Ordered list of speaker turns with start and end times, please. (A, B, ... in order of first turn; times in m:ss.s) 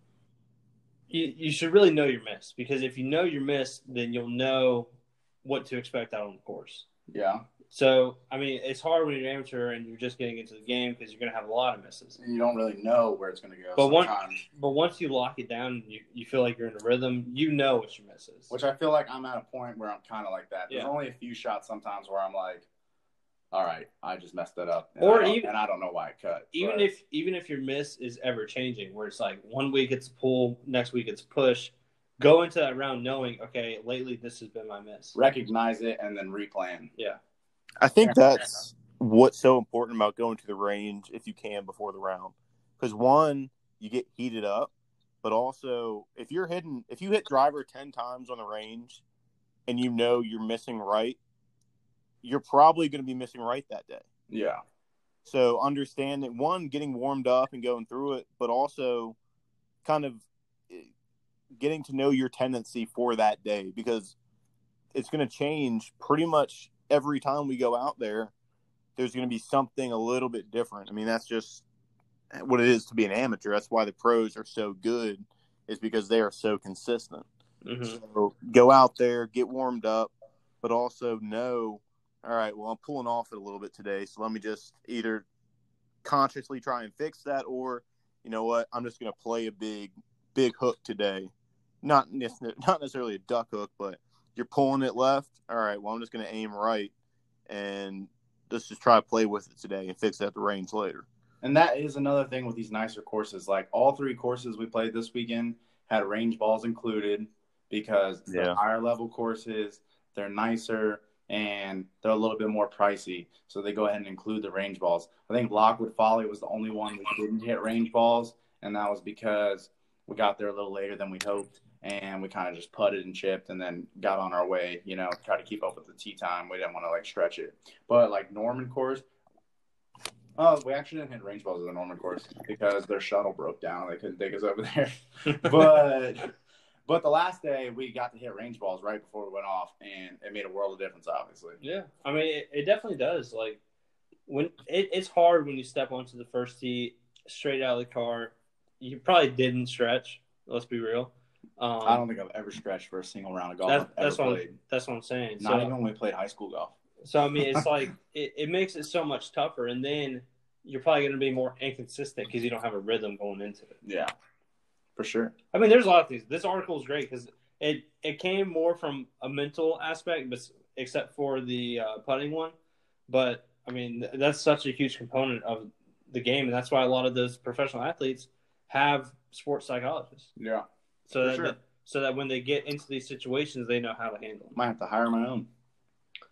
0:01.1-0:04.9 A
0:05.4-0:06.9 A
0:07.1-0:07.5 B
0:07.7-0:12.2 A
0:12.2-0:14.4 B
0:13.8-0:18.5 A
0:18.5-0:22.7 B
0:23.5-0:26.9 B
0:25.0-0:25.5 A
0:26.5-0:35.2 A
0:35.2-0:36.9 B
0:37.8-0:44.7 C
0:45.2-0:49.0 C
0:49.7-0:51.2 C
0:52.2-0:54.0 C
0:54.3-0:54.6 B
0:55.3-0:59.2 C
0:59.8-1:00.9 C
1:01.5-1:04.2 C
1:04.9-1:08.3 C
1:09.0-1:11.7 C
1:12.3-1:17.3 C
1:17.6-1:18.0 A
1:17.8-1:20.1 C
1:20.6-1:25.3 C
1:26.0-1:31.3 C
1:31.8-1:36.9 C
1:37.5-1:41.1 C
1:41.4-2:09.0 B
1:48.3-1:48.6 C
2:10.4-2:16.3 B
2:16.9-2:21.6 B
2:21.6-2:23.6 A
2:24.3-2:32.0 A
2:31.8-2:34.6 B
2:33.7-2:35.7 A
2:35.4-2:36.7 B
2:37.0-2:43.8 A
2:37.4-2:37.7 B
2:43.8-2:44.1 B
2:45.0-2:45.3 B
2:45.5-2:52.6 A
2:53.1-3:00.3 A
3:00.4-3:00.7 B
3:01.1-3:04.6 A
3:01.2-3:01.6 B
3:04.6-3:05.5 B